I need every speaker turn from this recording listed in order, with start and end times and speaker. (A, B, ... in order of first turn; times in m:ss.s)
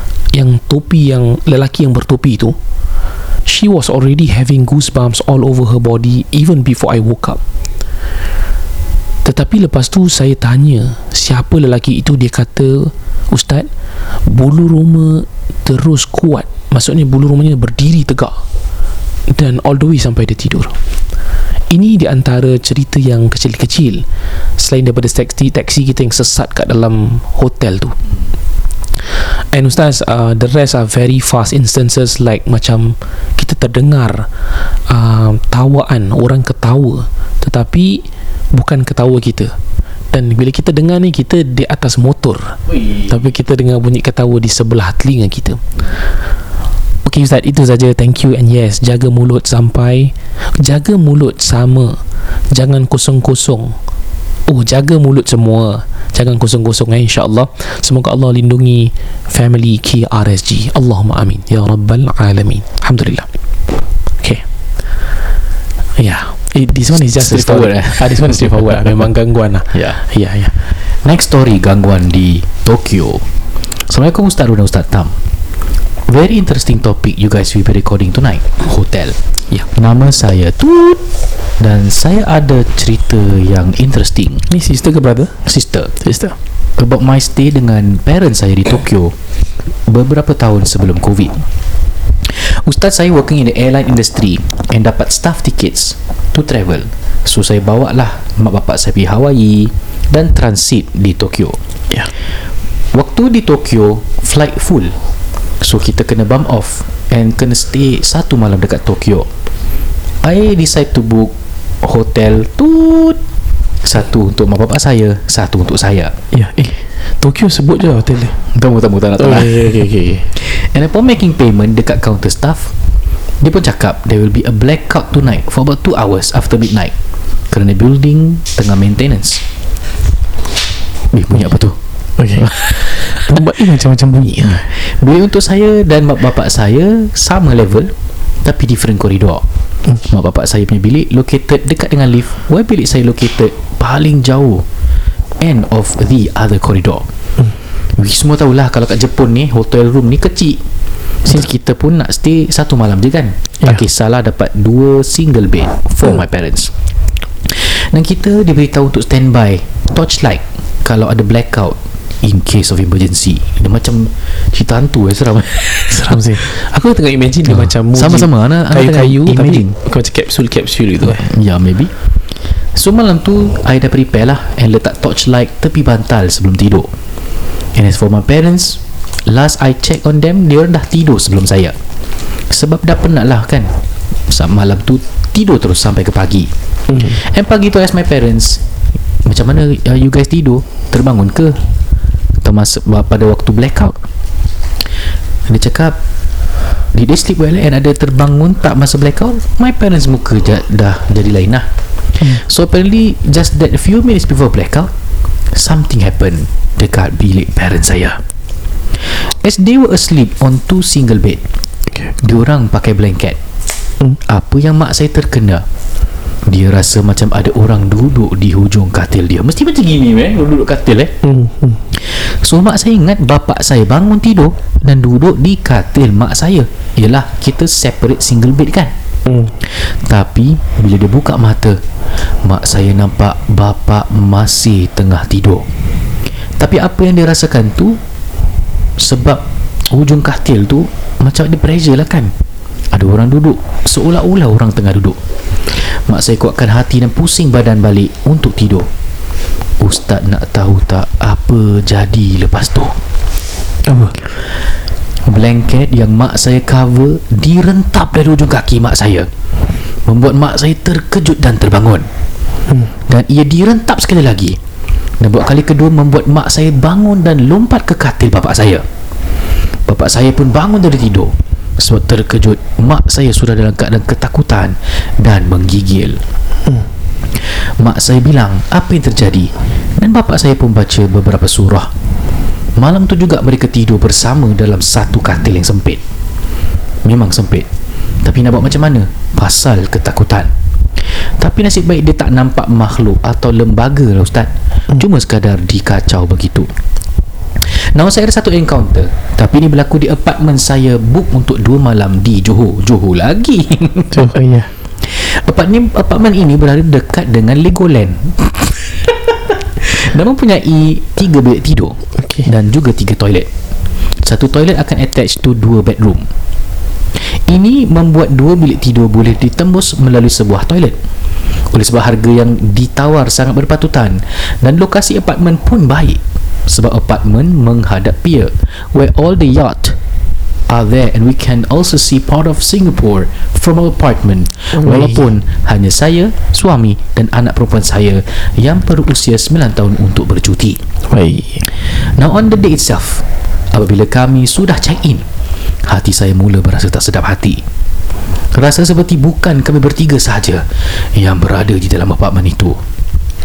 0:00.3-0:02.6 A
0:03.4-0:07.4 A
0:09.2-0:13.7 A
0:14.2-0:18.4 A
0:19.3-0:20.7 A
0:21.7-0:24.0 A
0:24.6-0:28.0 A
0:29.1-0:34.3 A
0:34.9-0:39.5 A
0:40.1-0:45.6 A
0:47.0-0:52.0 A
0:52.5-0:53.7 A
0:54.5-1:03.3 A
1:06.0-1:10.5 A
1:06.9-1:08.9 B
1:11.0-1:13.2 B
1:13.9-1:15.1 B
1:16.1-1:21.0 B
1:21.6-1:24.5 B
1:24.5-1:25.4 A
1:25.4-1:26.0 B
1:26.0-1:26.4 A
1:26.8-1:29.1 B
1:29.9-1:31.4 B
1:32.2-1:41.6 B
1:42.9-1:44.9 B
1:45.6-1:49.3 B
1:50.2-1:53.2 B
1:53.8-1:56.2 B
1:56.3-1:58.4 A
1:58.5-1:59.8 B
1:59.2-2:00.3 A
2:00.3-2:02.7 B
2:03.4-2:06.9 B
2:07.5-2:09.4 B
2:11.1-2:11.8 B
2:12.2-2:14.7 A
2:14.5-2:17.9 B
2:18.4-2:19.4 B
2:20.0-2:24.6 B
2:25.4-2:27.0 B
2:28.0-2:30.6 B
2:31.2-2:36.7 B
2:37.4-2:46.2 B
2:45.8-2:51.3 A
2:47.4-2:49.8 B
2:51.0-2:51.9 B
2:52.7-2:56.9 B
2:57.7-3:01.7 B
3:02.5-3:03.7 B
3:04.3-3:08.6 B
3:09.2-3:11.6 B
3:12.4-3:14.0 B
3:15.5-3:16.0 B
3:16.9-3:24.9 B
3:25.5-3:28.2 B
3:29.0-3:31.4 B
3:32.2-3:33.4 B
3:34.2-3:35.6 B
3:36.5-3:41.2 B
3:41.2-3:41.8 A
3:41.9-3:48.9 B
3:49.3-3:49.5 A
3:49.6-3:51.8 B
3:52.4-3:55.7 B
3:56.6-3:58.0 B
3:59.0-4:02.3 B
4:02.9-4:05.2 B
4:05.7-4:08.9 B
4:09.8-4:13.0 B
4:13.9-4:14.1 A
4:15.2-4:19.3 B
4:20.0-4:22.1 B
4:23.1-4:24.6 B
4:25.2-4:28.8 B
4:29.9-4:36.2 B
4:37.4-4:41.9 B
4:42.8-4:46.0 B
4:47.0-4:47.7 B
4:48.2-4:50.5 B
4:51.0-4:56.7 B
4:57.6-5:04.3 B
5:04.2-5:04.7 A
5:05.0-5:13.5 B
5:14.2-5:16.2 B
5:17.2-5:21.0 B
5:21.7-5:30.0 B
5:30.7-5:40.8 B
5:34.8-5:35.2 A
5:41.1-5:41.6 A
5:41.8-5:45.2 B
5:45.8-5:47.6 B
5:48.5-5:52.8 B